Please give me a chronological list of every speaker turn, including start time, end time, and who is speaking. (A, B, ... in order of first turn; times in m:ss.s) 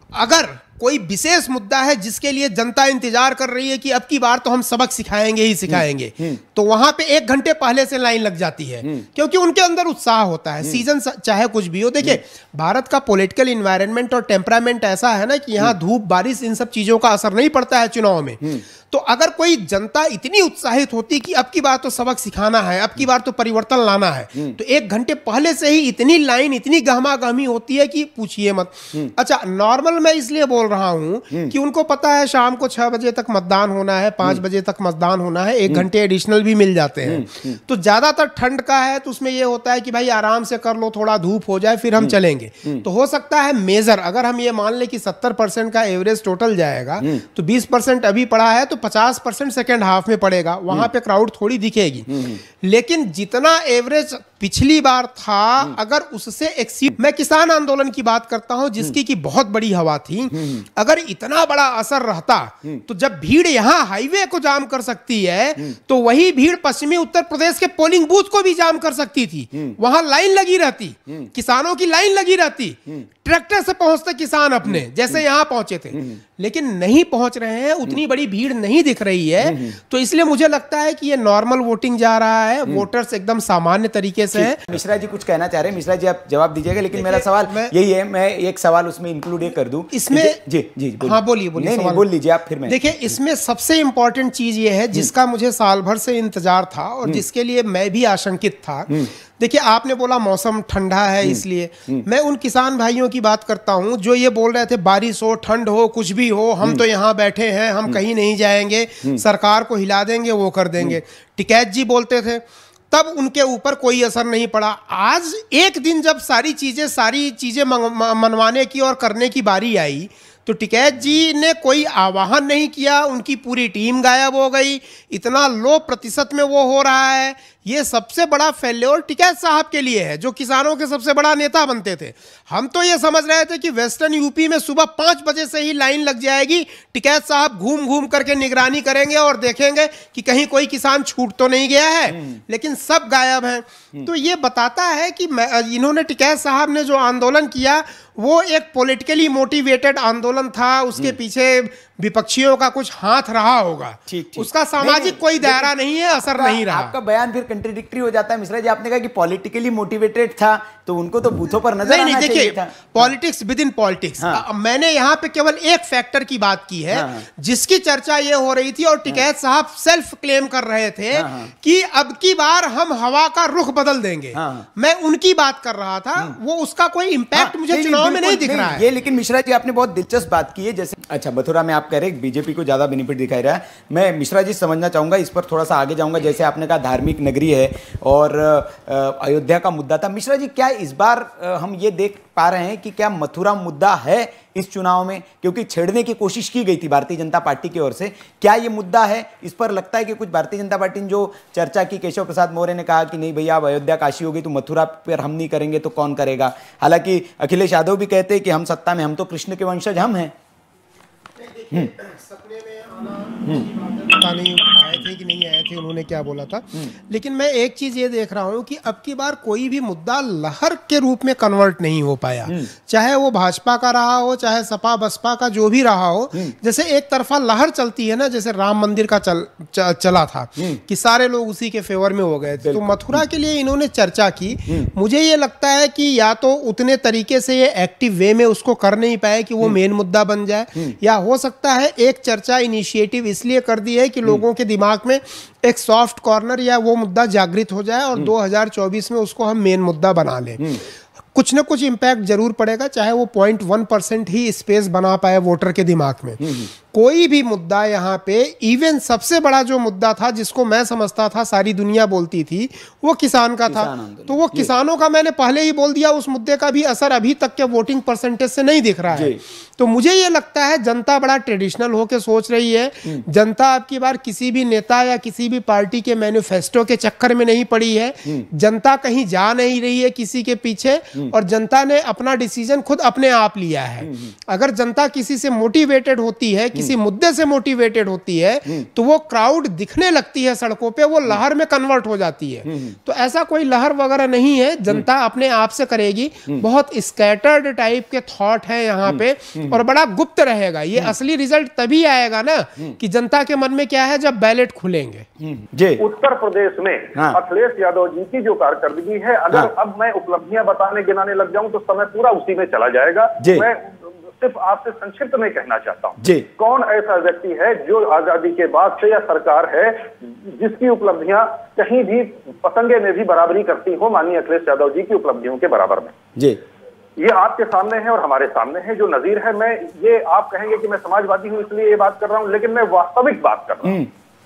0:00.1-1:24.6 A
0:05.7-0:06.4 B
0:37.1-0:37.6 B
1:24.3-1:32.8 B
1:26.9-1:27.7 A
1:29.9-1:30.4 A
1:31.0-1:32.1 A
1:32.7-2:36.9 A
2:34.1-2:43.1 B
2:41.8-2:58.9 A
2:46.9-2:47.2 B
2:51.2-2:51.5 B
2:54.4-2:54.7 B
2:57.4-3:30.3 B
3:31.4-4:10.8 A
3:52.6-3:53.2 B
4:11.3-5:05.3 A
4:16.4-4:16.7 B
4:23.7-4:24.7 B
4:29.1-4:29.4 B
4:44.0-4:44.3 B
4:52.7-4:53.0 B
4:59.1-4:59.8 B
5:05.4-5:06.0 B
5:06.0-5:26.2 C
5:13.4-5:13.7 B
5:16.2-5:16.5 B
5:27.2-5:34.0 C